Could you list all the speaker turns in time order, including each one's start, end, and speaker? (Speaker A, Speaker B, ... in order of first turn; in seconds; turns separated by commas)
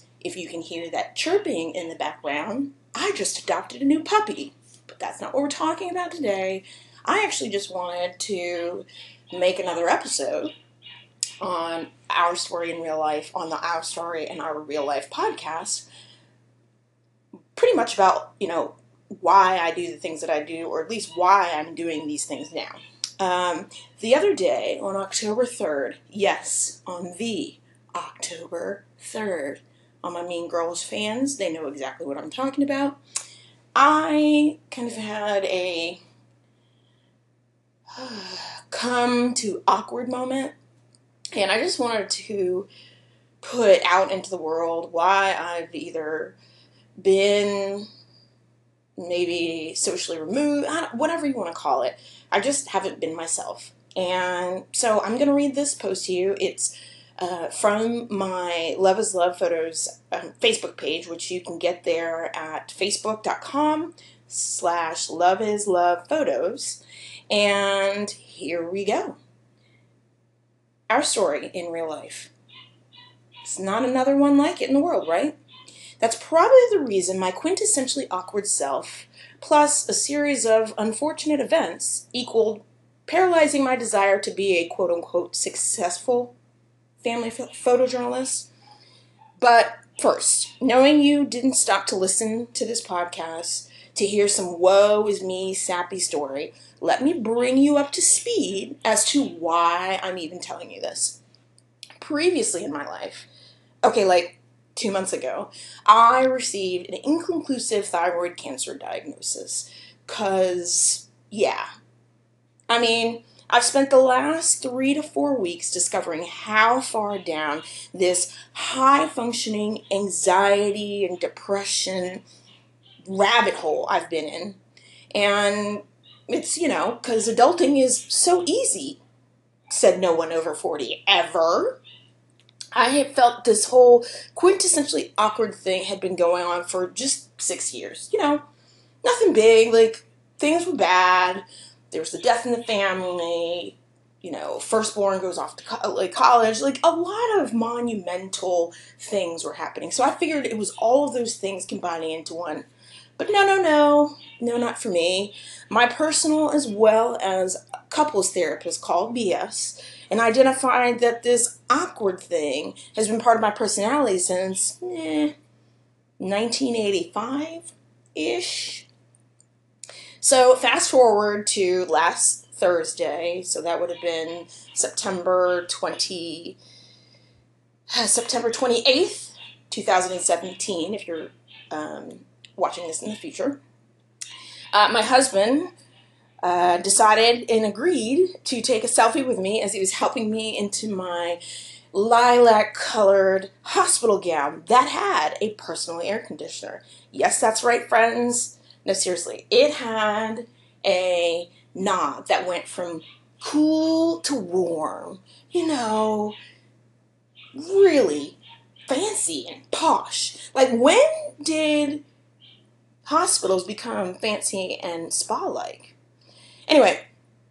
Speaker A: 0.2-10.5, Speaker A: 11.4-15.9, Speaker A: 17.6-33.0, Speaker A: 33.7-36.0, Speaker A: 37.9-40.5, Speaker A: 41.3-42.7, Speaker A: 43.4-46.4, Speaker A: 47.0-47.9, Speaker A: 49.0-69.2, Speaker A: 70.9-72.3, Speaker A: 73.4-75.4, Speaker A: 76.0-86.3, Speaker A: 87.0-88.5, Speaker A: 89.4-101.2, Speaker A: 102.0-103.3, Speaker A: 103.8-111.7, Speaker A: 112.7-122.2, Speaker A: 123.0-124.6, Speaker A: 125.1-129.0, Speaker A: 129.7-131.8, Speaker A: 132.7-138.4, Speaker A: 139.0-152.7, Speaker A: 153.2-165.3, Speaker A: 166.2-168.9, Speaker A: 170.2-176.6, Speaker A: 177.9-183.6, Speaker A: 184.7-185.7, Speaker A: 186.4-191.4, Speaker A: 191.9-206.3, Speaker A: 207.5-212.0, Speaker A: 213.0-215.9, Speaker A: 216.7-217.1